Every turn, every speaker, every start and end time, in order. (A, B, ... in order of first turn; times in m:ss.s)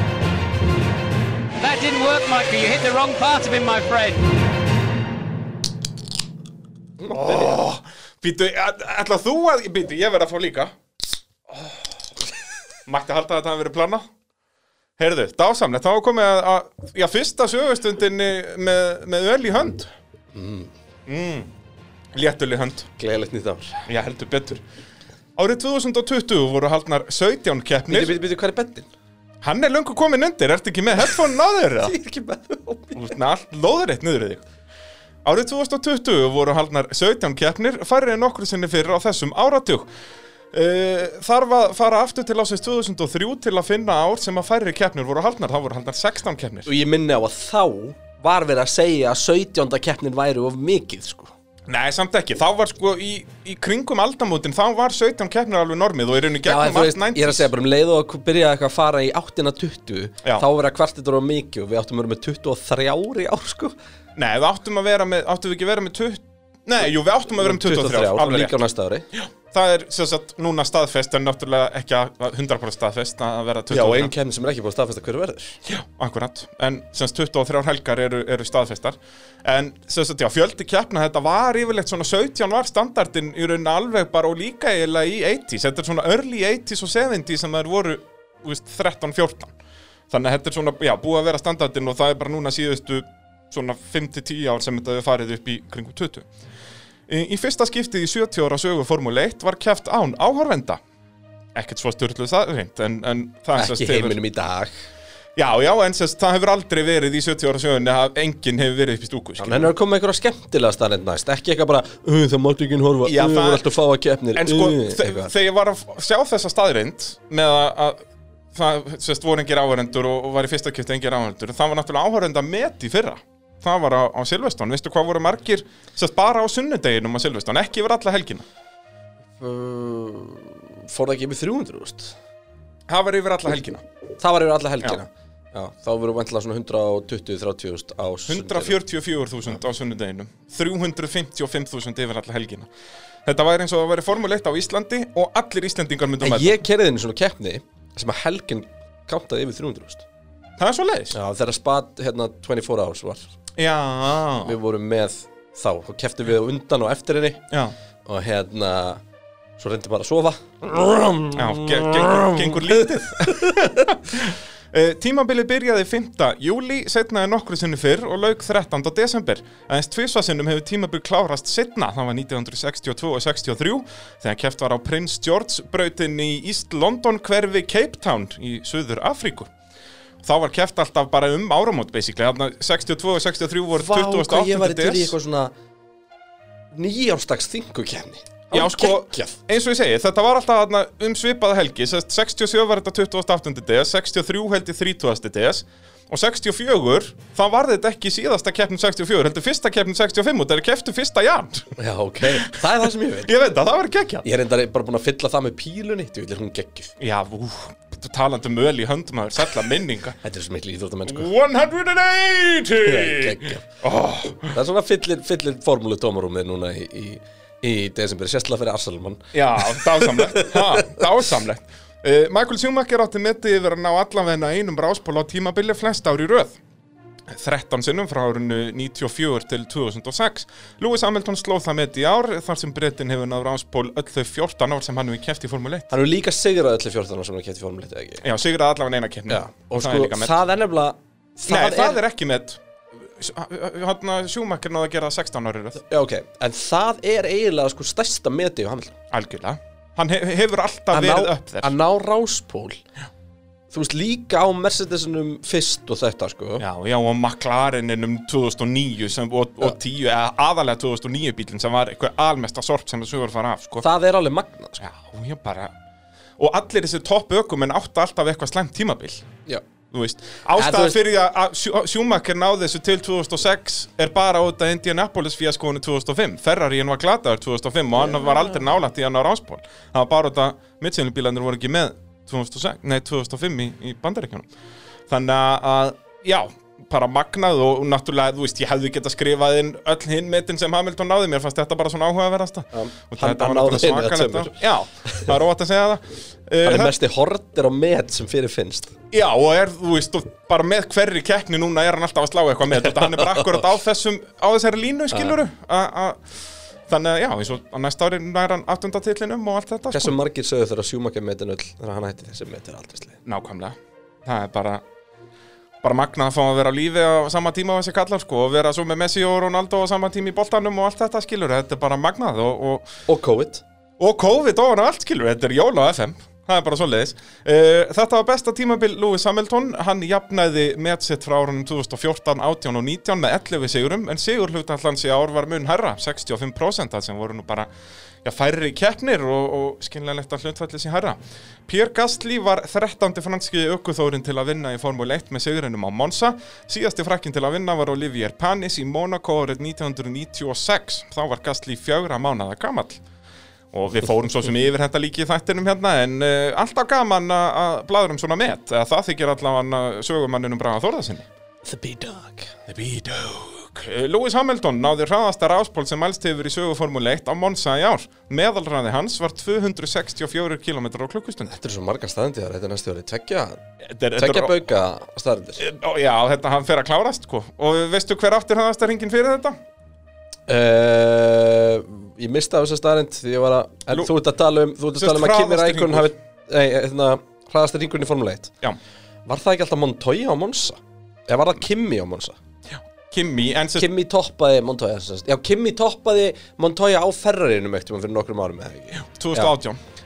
0:01.6-0:04.0 A
0:07.0-0:07.5 B
0:07.1-0:10.7 C
0:11.5-0:11.8 C
0:12.8-0:14.1 C
0:15.0-0:19.9 C
0:20.3-0:20.7 B
0:21.0-0:21.5 C
0:22.1-0:22.9 C
0:23.0-0:23.8 B
0:23.8-0:24.6 C
0:25.4-0:28.2 C
0:27.9-0:28.9 B
0:29.4-0:31.9 C
0:31.8-0:33.1 B
0:32.9-0:34.4 C
0:35.2-0:39.9 C
0:40.5-0:46.7 C
0:46.6-0:51.3 B
0:51.7-0:57.5 C
0:56.4-1:03.7 B
1:04.2-1:08.6 C
1:07.3-1:09.1 B
1:09.1-1:14.1 C
1:13.7-1:15.6 B
1:15.7-1:29.5 C
1:30.1-1:36.3 C
1:37.1-1:40.8 C
1:41.5-1:44.2 C
1:43.5-1:44.7 B
1:45.4-1:49.7 C
1:49.4-1:55.3 B
1:53.0-1:53.7 C
1:54.4-2:08.4 C
2:09.4-2:12.1 B
2:12.9-2:13.8 C
2:14.2-2:18.8 B
2:18.3-2:22.7 C
2:23.2-2:26.6 C
2:26.2-2:30.0 B
2:30.6-2:31.2 C
2:31.1-2:33.3 B
2:33.6-2:34.5 C
2:34.4-2:37.4 B
2:38.0-2:39.0 B
2:39.6-2:43.9 B
2:41.3-2:59.5 C
3:00.2-3:05.2 C
3:03.7-3:05.5 B
3:06.7-3:09.4 B
3:08.5-3:21.7 C
3:21.8-3:23.3 B
3:22.2-3:22.6 C
3:23.2-3:24.2 C
3:24.2-3:26.9 B
3:27.0-3:30.2 C
3:30.2-3:31.3 B
3:31.0-3:34.5 C
3:32.8-3:33.7 B
3:34.5-3:41.0 B
3:39.3-3:46.6 C
3:47.3-3:55.9 C
3:55.9-3:58.2 B
3:58.2-4:00.4 C
3:59.3-4:02.0 B
4:01.5-4:05.8 C
4:05.8-4:09.0 B
4:09.1-4:11.7 C
4:10.9-4:12.8 B
4:13.7-4:16.6 B
4:16.6-4:23.8 C
4:23.8-4:24.8 B
4:24.8-4:25.7 C
4:26.4-4:29.2 C
4:29.9-4:44.5 C
4:30.6-4:31.0 B
4:37.9-4:38.7 B
4:45.1-4:56.9 C
4:52.7-4:55.3 B
4:56.6-4:58.9 B
4:59.1-5:10.1 C
5:09.9-5:13.2 B
5:13.2-5:14.8 C
5:15.8-5:22.9 C
5:23.1-5:23.6 B
5:24.0-5:37.7 C
5:38.2-5:53.0 C
5:53.7-6:01.3 C
6:01.6-6:02.6 B
6:02.7-6:11.5 C
6:11.5-6:13.6 B
6:13.8-6:14.6 C
6:14.2-6:15.6 B
6:15.6-6:19.6 C
6:20.5-6:28.5 B
6:25.0-6:26.1 C
6:29.2-6:32.4 B
6:32.7-6:33.9 C
6:33.8-6:39.5 B
6:39.0-6:39.8 C